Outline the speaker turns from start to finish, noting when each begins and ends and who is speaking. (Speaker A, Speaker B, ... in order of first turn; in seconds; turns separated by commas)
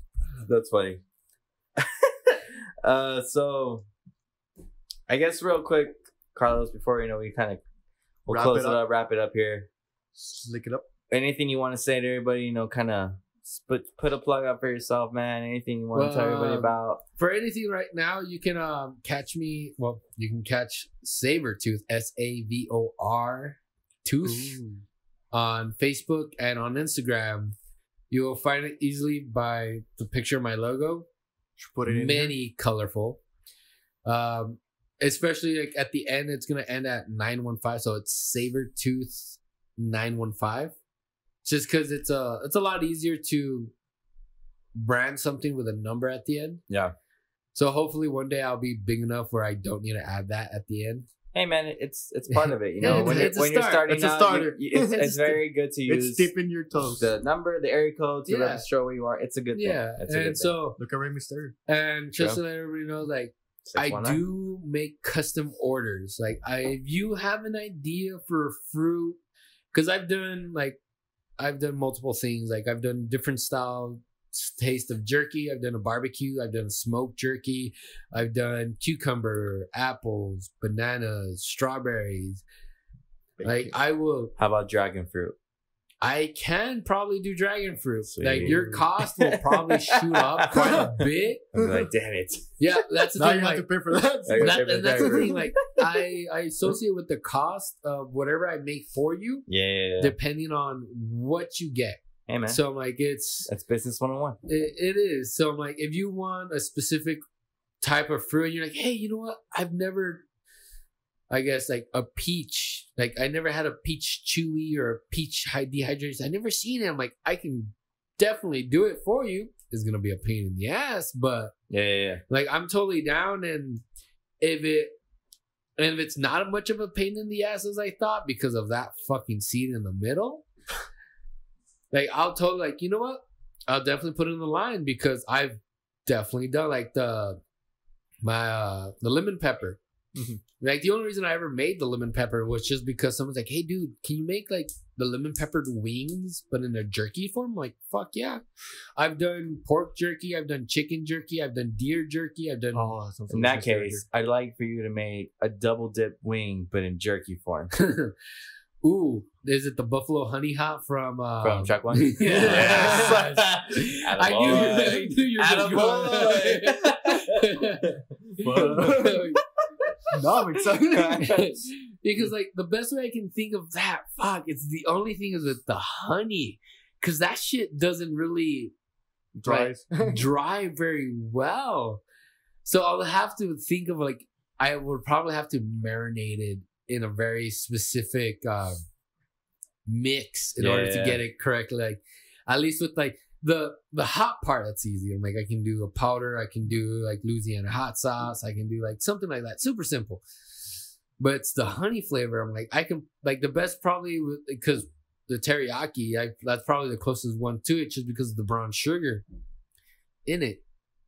Speaker A: 0.4-1.0, Speaker A: 1.8-3.9, Speaker A: 5.1-7.6, Speaker A: 8.3-9.7, Speaker B: 8.3-8.8, Speaker B: 10.2-10.9, Speaker A: 11.1-17.0, Speaker C: 15.9-24.6, Speaker B: 24.2-24.8, Speaker C: 25.3-27.6, Speaker C: 28.1-31.1, Speaker B: 31.6-32.4, Speaker C: 31.9-33.2, Speaker C: 34.0-40.8, Speaker C: 41.4-43.7, Speaker C: 44.8-46.6, Speaker A: 46.7-47.0, Speaker C: 47.5-51.1, Speaker A: 51.3-56.3, Speaker C: 52.3-53.9, Speaker B: 52.8-57.1, Speaker A: 57.0-60.5, Speaker C: 58.3-58.6, Speaker C: 59.5-60.8, Speaker B: 60.8-61.6, Speaker C: 61.7-69.2, Speaker A: 63.6-64.2, Speaker C: 69.7-70.8, Speaker C: 71.4-82.4, Speaker B: 83.4-83.8, Speaker C: 83.4-84.3, Speaker A: 84.4-85.4, Speaker C: 86.0-91.5, Speaker A: 88.1-92.8, Speaker B: 88.4-88.9, Speaker B: 90.6-91.0, Speaker B: 91.5-91.8, Speaker C: 92.6-93.7, Speaker B: 93.2-95.3, Speaker A: 94.3-95.9, Speaker C: 94.4-99.5, Speaker A: 99.5-100.2, Speaker C: 100.0-103.5, Speaker A: 102.3-102.6, Speaker A: 103.5-104.4, Speaker C: 104.5-107.2, Speaker C: 107.8-110.2, Speaker C: 111.3-121.5, Speaker A: 121.7-122.2, Speaker C: 122.3-123.8, Speaker C: 124.4-124.9, Speaker C: 125.8-130.4, Speaker C: 131.9-137.4, Speaker C: 138.2-139.8, Speaker B: 140.1-140.4, Speaker C: 140.6-148.4, Speaker C: 149.0-152.9, Speaker B: 152.7-154.1, Speaker A: 153.3-157.7, Speaker C: 157.8-158.1, Speaker C: 158.8-169.4, Speaker A: 161.4-167.9, Speaker B: 162.3-163.4, Speaker B: 168.4-169.3, Speaker A: 168.6-168.8, Speaker B: 170.1-171.3, Speaker A: 170.7-171.6, Speaker C: 171.2-178.7, Speaker B: 179.3-180.2, Speaker C: 179.4-182.0, Speaker C: 182.6-188.8, Speaker C: 189.9-200.2, Speaker A: 190.6-191.2, Speaker C: 201.2-209.2, Speaker C: 210.3-210.6